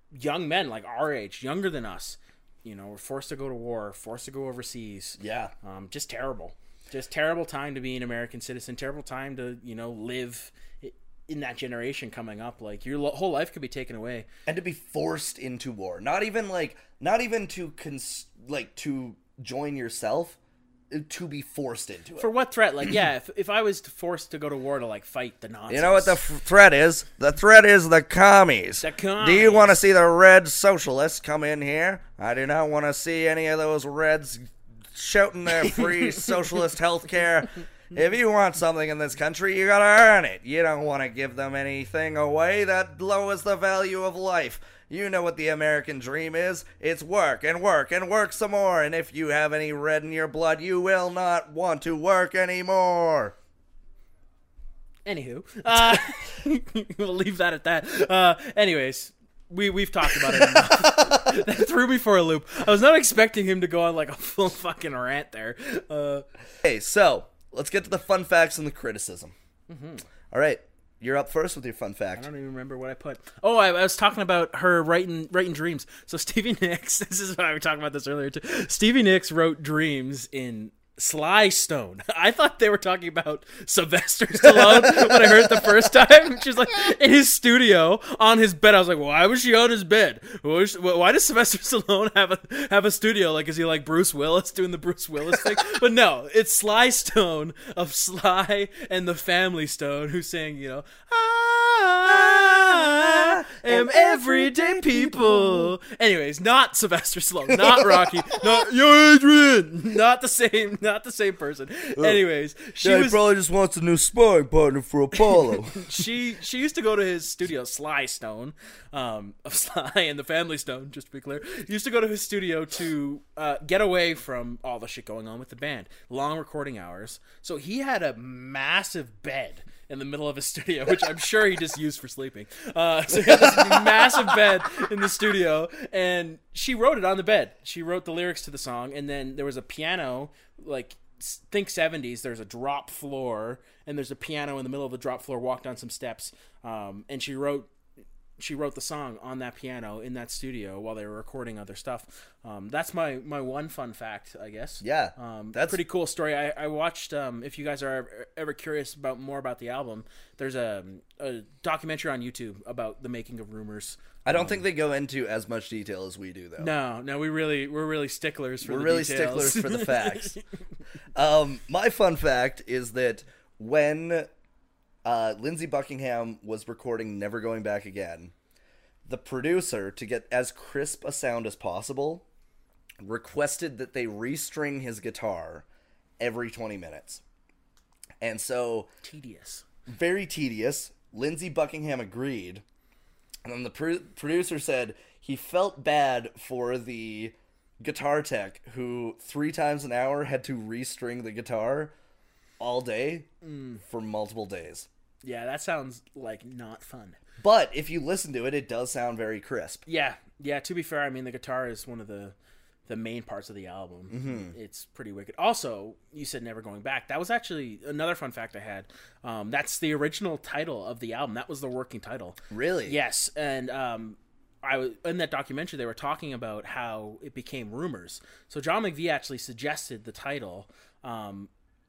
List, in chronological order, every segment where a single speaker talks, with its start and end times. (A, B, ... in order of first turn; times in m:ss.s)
0:00.2-0:14.3 A
0:05.2-0:05.5 B
0:14.5-0:20.4 B
0:20.9-0:22.3 B
0:22.2-0:26.2 A
0:25.7-0:53.4 B
0:28.8-0:29.7 A
0:35.7-0:36.3 A
0:55.1-1:06.3 A
1:00.1-1:01.3 B
1:06.6-1:09.3 B
1:09.7-1:10.0 A
1:10.3-1:12.3 B
1:12.2-1:53.2 A
1:24.4-1:25.7 B
1:42.0-1:45.7 B
1:47.5-1:48.5 B
1:52.0-1:52.2 B
1:52.8-1:56.0 B
1:55.2-2:27.7 A
2:13.1-2:14.3 B
2:28.4-2:44.6 A
2:34.8-2:35.8 B
2:44.3-2:46.7 B
2:46.6-2:50.4 A
2:48.6-2:50.4 B
2:51.2-2:54.3 B
2:55.0-2:58.3 B
2:59.1-3:02.2 B
3:03.0-3:05.6 B
3:06.2-3:07.2 B
3:08.2-3:08.9 B
3:09.0-3:09.6 A
3:09.9-3:12.6 B
3:13.4-3:21.9 B
3:22.6-3:23.3 B
3:23.4-3:23.8 A
3:23.8-3:24.9 B
3:25.2-3:27.2 A
3:27.4-3:29.8 B
3:29.9-3:32.4 A
3:32.9-3:51.5 A
3:34.1-3:34.5 B
3:42.5-3:43.0 B